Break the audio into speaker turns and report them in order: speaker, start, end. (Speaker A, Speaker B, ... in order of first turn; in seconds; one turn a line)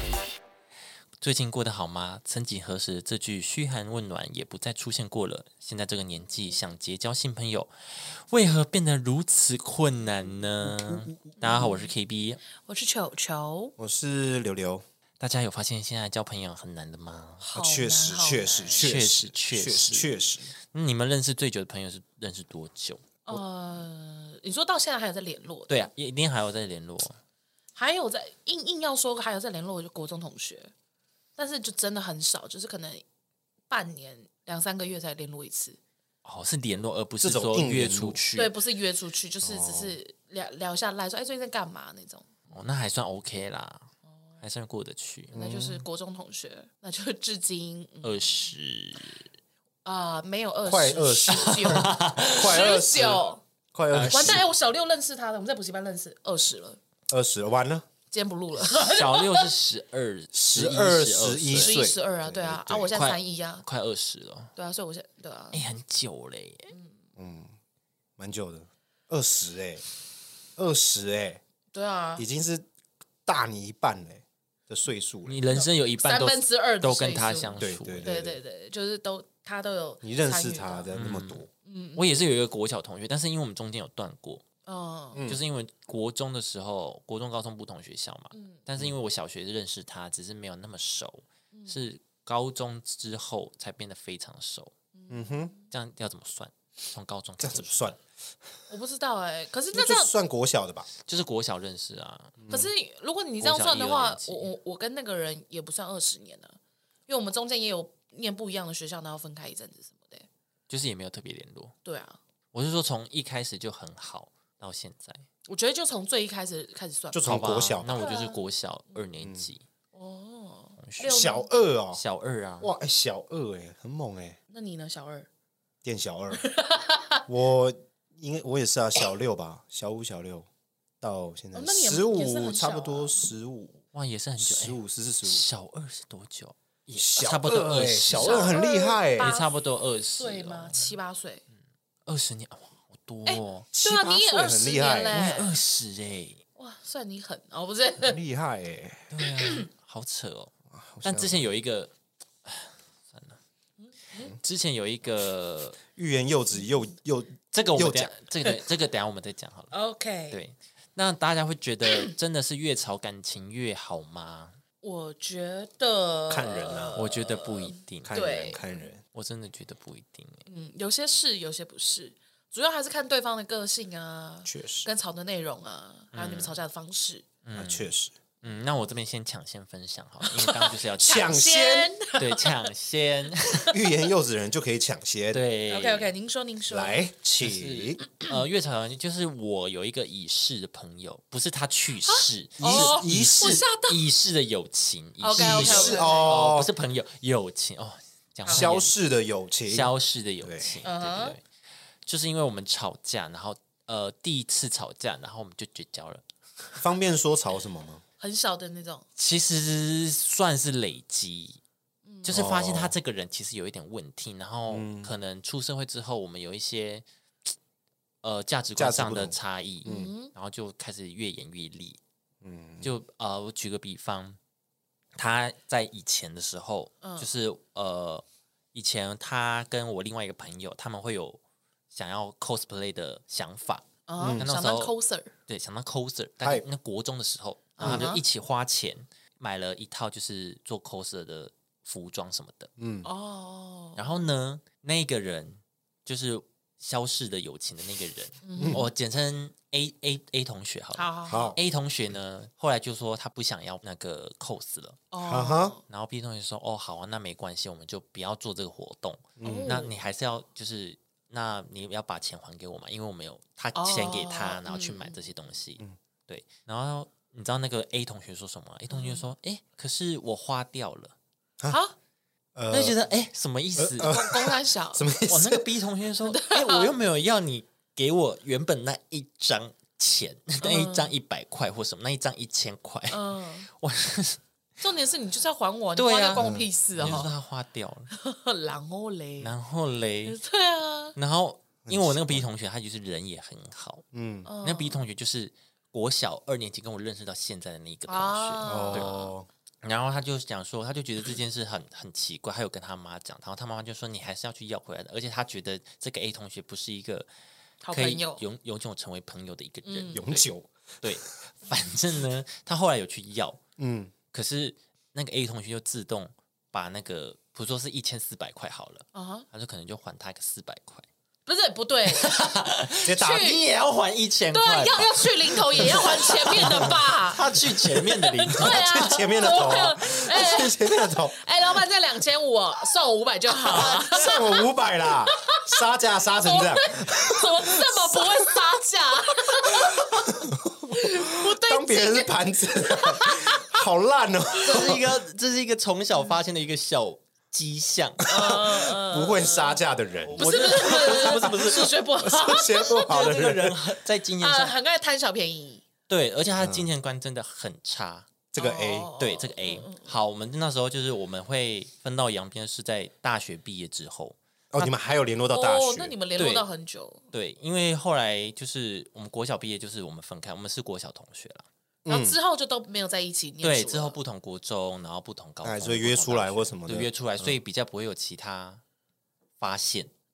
Speaker A: 1.2-12.4
Speaker B: 11.4-11.9
Speaker B: 12.6-13.7
Speaker C: 13.8-14.8
Speaker A: 15.2-17.4
Speaker B: 17.4-18.9
Speaker C: 17.5-20.5
Speaker A: 18.8-20.1
Speaker A: 20.7-23.2
Speaker B: 23.2-25.9
Speaker A: 25.7-27.2
Speaker B: 27.8-30.7
Speaker B: 31.4-33.0
Speaker B: 33.7-35.8
Speaker A: 36.2-38.5
Speaker C: 37.2-38.2
Speaker B: 38.4-42.2
Speaker C: 39.4-40.0
Speaker A: 42.5-43.9
Speaker A: 44.4-45.3
Speaker C: 45.3-45.8
Speaker B: 45.3-48.1
Speaker A: 48.0-49.2
Speaker B: 49.8-53.4
Speaker C: 50.6-54.4
Speaker A: 51.3-52.7
Speaker A: 53.9-54.5
Speaker B: 54.1-56.8
Speaker C: 57.1-57.9
Speaker B: 58.1-59.5
Speaker A: 58.6-61.8
Speaker C: 60.3-62.7
Speaker B: 61.5-63.6
Speaker A: 62.6-64.5
Speaker B: 64.5-65.6
Speaker A: 65.5-66.7
Speaker C: 67.2-67.5
Speaker C: 68.2-69.8
Speaker C: 70.5-71.4
Speaker B: 71.7-72.2
Speaker C: 72.2-72.7
Speaker C: 73.2-75.4
Speaker A: 75.2-78.1
Speaker B: 75.5-80.9
Speaker C: 77.6-78.4
Speaker C: 80.0-81.5
Speaker A: 80.9-81.4
Speaker B: 81.7-82.0
Speaker A: 82.0-84.4
Speaker B: 84.7-85.2
Speaker C: 85.1-85.4
Speaker A: 85.2-94.7
Speaker B: 94.9-95.6
Speaker C: 95.1-95.5
Speaker A: 95.7-98.0
Speaker C: 97.4-98.0
Speaker B: 98.7-100.1
Speaker C: 99.7-100.9
Speaker A: 101.0-102.5
Speaker C: 102.4-102.7
Speaker B: 102.5-110.3
Speaker A: 103.4-104.5
Speaker A: 110.7-111.7
Speaker B: 111.8-112.2
Speaker A: 112.5-115.2
Speaker B: 115.5-118.4
Speaker C: 117.1-118.0
Speaker A: 117.2-119.6
Speaker C: 119.2-119.5
Speaker B: 119.9-121.5
Speaker A: 120.8-121.2
Speaker C: 121.0-122.0
Speaker A: 121.9-122.7
Speaker C: 122.6-124.4
Speaker B: 124.5-125.3
Speaker C: 125.8-126.4
Speaker B: 126.3-127.2
Speaker C: 127.3-130.5
Speaker C: 131.0-133.8
Speaker B: 131.5-133.2
Speaker A: 133.9-138.6
Speaker C: 134.4-135.4
Speaker C: 136.9-139.4
Speaker B: 138.1-139.5
Speaker A: 139.2-140.9
Speaker B: 140.2-141.4
Speaker A: 142.1-143.8
Speaker B: 143.2-145.6
Speaker C: 143.8-145.3
Speaker A: 145.1-146.4
Speaker B: 146.6-148.2
Speaker C: 148.0-149.1
Speaker A: 149.1-150.5
Speaker B: 149.3-149.7
Speaker C: 150.7-151.5
Speaker A: 151.0-151.9
Speaker A: 152.4-153.4
Speaker B: 153.8-154.3
Speaker A: 154.4-155.8
Speaker C: 155.9-158.1
Speaker A: 157.5-159.7
Speaker B: 159.7-160.4
Speaker A: 160.3-164.6
Speaker B: 164.8-168.6
Speaker C: 166.3-167.0
Speaker A: 166.9-168.6
Speaker C: 168.0-169.0
Speaker A: 169.1-170.4
Speaker B: 170.5-177.2
Speaker C: 174.4-174.9
Speaker A: 176.1-176.6
Speaker A: 177.4-177.9
Speaker C: 177.6-178.1
Speaker A: 178.4-181.3
Speaker B: 180.2-182.7
Speaker C: 181.0-181.9
Speaker A: 182.2-183.8
Speaker C: 183.7-185.4
Speaker A: 185.3-186.1
Speaker B: 185.7-187.0
Speaker C: 186.7-188.0
Speaker A: 187.4-198.9
Speaker B: 192.1-194.0
Speaker C: 192.6-193.6
Speaker B: 195.2-196.5
Speaker C: 195.3-196.7
Speaker C: 198.5-200.7
Speaker A: 199.7-201.4
Speaker B: 200.8-201.4
Speaker A: 202.1-206.2
Speaker C: 206.8-208.0
Speaker B: 208.2-209.1
Speaker A: 209.2-211.6
Speaker B: 212.1-212.3
Speaker A: 212.2-217.0
Speaker C: 212.3-212.9
Speaker C: 214.7-215.1
Speaker A: 218.2-222.0
Speaker C: 218.8-220.1
Speaker B: 219.8-220.3
Speaker C: 222.4-222.9
Speaker A: 222.8-224.4
Speaker A: 225.2-231.4
Speaker B: 227.0-227.3
Speaker A: 231.9-233.9
Speaker B: 234.1-235.3
Speaker C: 234.2-234.5
Speaker A: 234.4-234.9
Speaker A: 235.5-242.7
Speaker B: 237.8-238.2
Speaker C: 237.8-238.1
Speaker C: 242.8-243.1
Speaker B: 243.0-244.2
Speaker A: 243.9-255.0
Speaker B: 248.4-248.9
Speaker C: 248.6-248.9
Speaker B: 250.9-251.6
Speaker C: 251.3-251.6
Speaker B: 255.1-255.8
Speaker C: 255.2-255.8
Speaker A: 255.9-271.1
Speaker C: 259.4-259.9
Speaker B: 259.4-259.9
Speaker B: 263.7-265.2
Speaker B: 268.9-269.3
Speaker B: 271.7-271.9
Speaker C: 272.5-273.0
Speaker A: 272.7-274.1
Speaker C: 273.8-275.8
Speaker B: 274.0-275.1
Speaker A: 275.3-284.4
Speaker B: 276.3-276.9
Speaker B: 280.6-281.1
Speaker B: 283.1-283.7
Speaker B: 284.8-287.3
Speaker A: 286.0-288.1
Speaker C: 286.3-287.3
Speaker B: 288.1-289.5
Speaker A: 289.4-290.4
Speaker B: 290.2-291.1
Speaker A: 291.1-294.1
Speaker C: 291.8-292.5
Speaker C: 294.1-294.5
Speaker B: 294.4-295.0
Speaker A: 294.6-299.1
Speaker B: 298.1-299.3
Speaker C: 298.6-299.5
Speaker A: 299.8-307.3
Speaker B: 307.8-308.4
Speaker A: 307.9-310.5
Speaker B: 309.8-310.2
Speaker C: 310.1-311.2
Speaker A: 311.0-313.6
Speaker C: 313.8-314.1
Speaker A: 314.3-321.1
Speaker B: 319.1-319.5
Speaker B: 321.4-322.4
Speaker A: 322.1-329.2
Speaker C: 323.0-323.6
Speaker B: 323.0-323.6
Speaker B: 324.5-334.7
Speaker C: 325.8-327.0
Speaker C: 328.6-331.4
Speaker C: 333.7-338.5
Speaker A: 333.7-334.0
Speaker B: 335.3-335.7
Speaker B: 336.4-343.7
Speaker C: 339.6-345.2
Speaker B: 344.6-344.9
Speaker A: 344.6-348.2
Speaker B: 348.2-349.8
Speaker C: 348.4-353.8
Speaker A: 350.2-352.0
Speaker B: 350.4-353.1
Speaker A: 352.9-354.8
Speaker B: 354.4-355.8
Speaker A: 356.1-358.3
Speaker C: 356.6-356.9
Speaker C: 358.5-359.1
Speaker B: 358.6-360.1
Speaker A: 359.1-364.4
Speaker C: 364.7-366.1
Speaker B: 365.5-367.2
Speaker A: 366.4-366.6
Speaker A: 367.3-371.6
Speaker C: 372.1-372.4
Speaker B: 372.1-374.2
Speaker A: 373.6-378.8
Speaker C: 375.6-377.6
Speaker A: 379.6-380.1